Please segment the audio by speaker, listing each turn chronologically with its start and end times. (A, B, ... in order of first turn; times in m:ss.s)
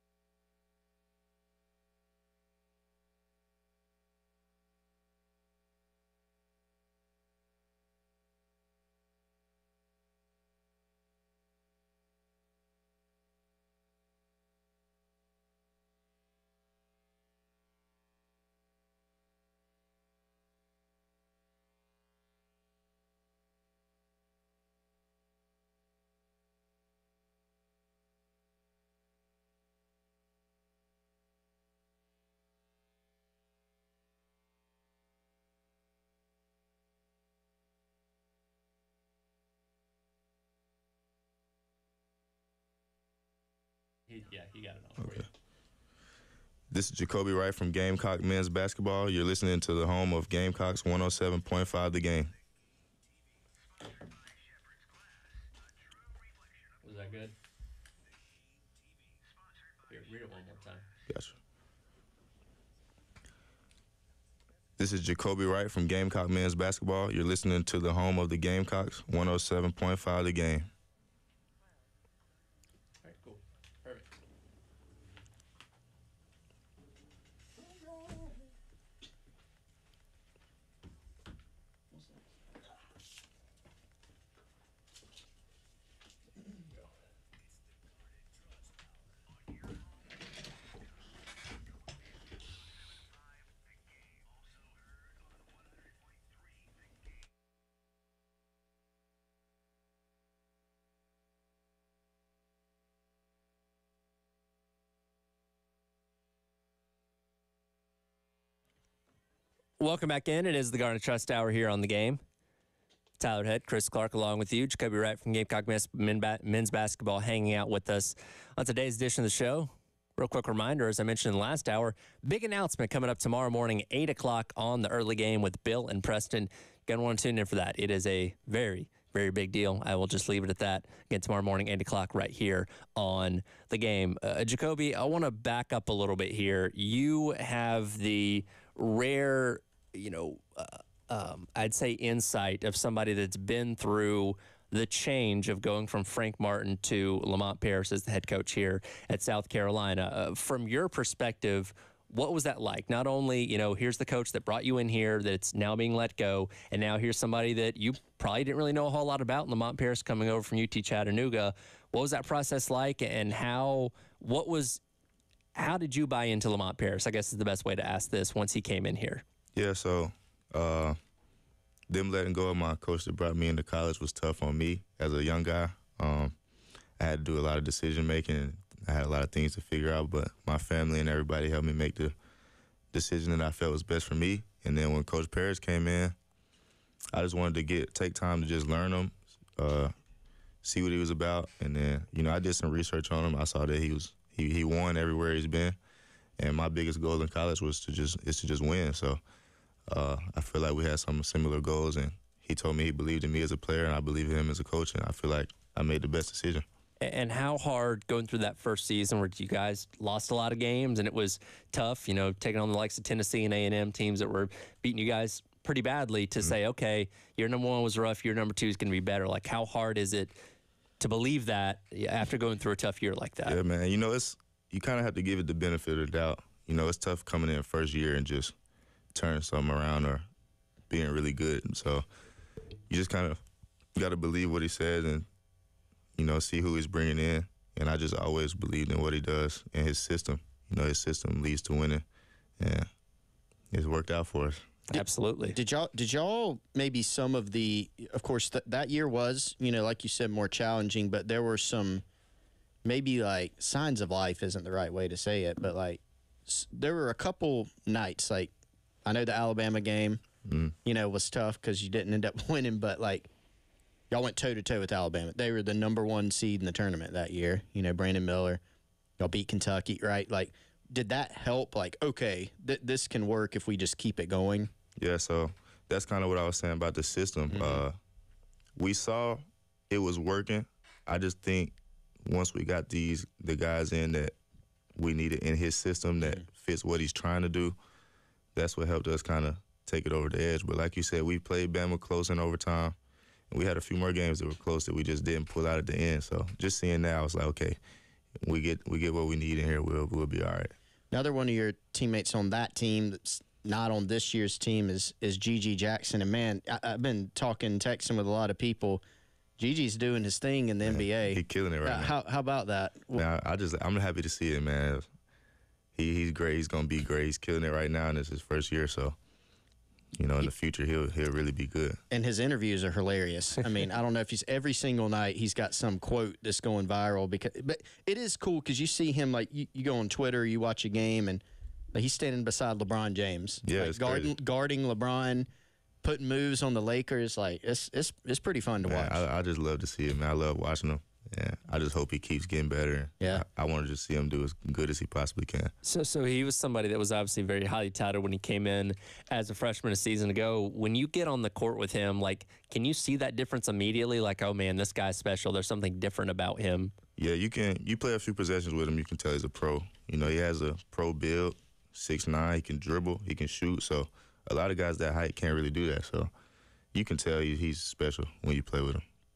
0:44.1-0:45.3 A
0:46.7-0:52.3 B
0:56.8-0:57.3 A
0:59.8-1:00.8 A
1:01.1-1:01.4 B
1:04.8-1:10.7 B
1:13.0-1:14.0 A
1:49.8-1:52.2 A
1:53.2-2:44.8 A
2:45.5-2:49.2 A
2:49.6-2:51.0 B
2:51.9-2:56.4 B
2:57.0-3:02.1 B
3:02.9-3:06.2 B
3:07.1-3:09.9 B
3:10.6-3:15.8 B
3:16.4-3:19.2 B
3:19.9-3:26.6 B
3:27.0-3:40.3 A
3:41.0-3:43.6 A
3:43.4-3:48.5 B
3:49.1-3:50.2 B
3:50.9-3:52.0 B
3:52.9-3:53.4 B
3:53.9-3:55.2 B
3:56.2-4:02.0 B
4:02.6-4:02.9 B
4:03.7-4:04.7 B
4:04.9-4:12.0 C
4:04.9-4:05.6 A
4:12.8-4:18.5 C
4:19.0-4:20.2 C
4:20.4-4:20.7 B
4:20.8-4:23.3 C
4:24.1-4:28.6 C
4:29.2-4:34.7 C
4:35.0-4:38.0 B
4:37.5-4:37.8 C
4:38.8-4:44.3 B
4:45.0-4:47.7 B
4:48.5-4:53.0 B
4:53.5-4:57.8 B
4:58.4-5:00.7 B
5:01.1-5:09.0 C
5:09.6-5:13.2 C
5:10.9-5:12.1 B
5:13.1-5:15.1 B
5:15.9-5:19.2 B
5:20.1-5:22.0 B
5:22.1-5:31.4 C
5:31.9-5:35.5 C
5:33.6-5:34.3 B
5:36.0-5:39.2 C
5:38.8-5:45.7 B
5:45.8-5:56.9 A
5:57.2-6:06.3 B
6:06.9-6:09.0 B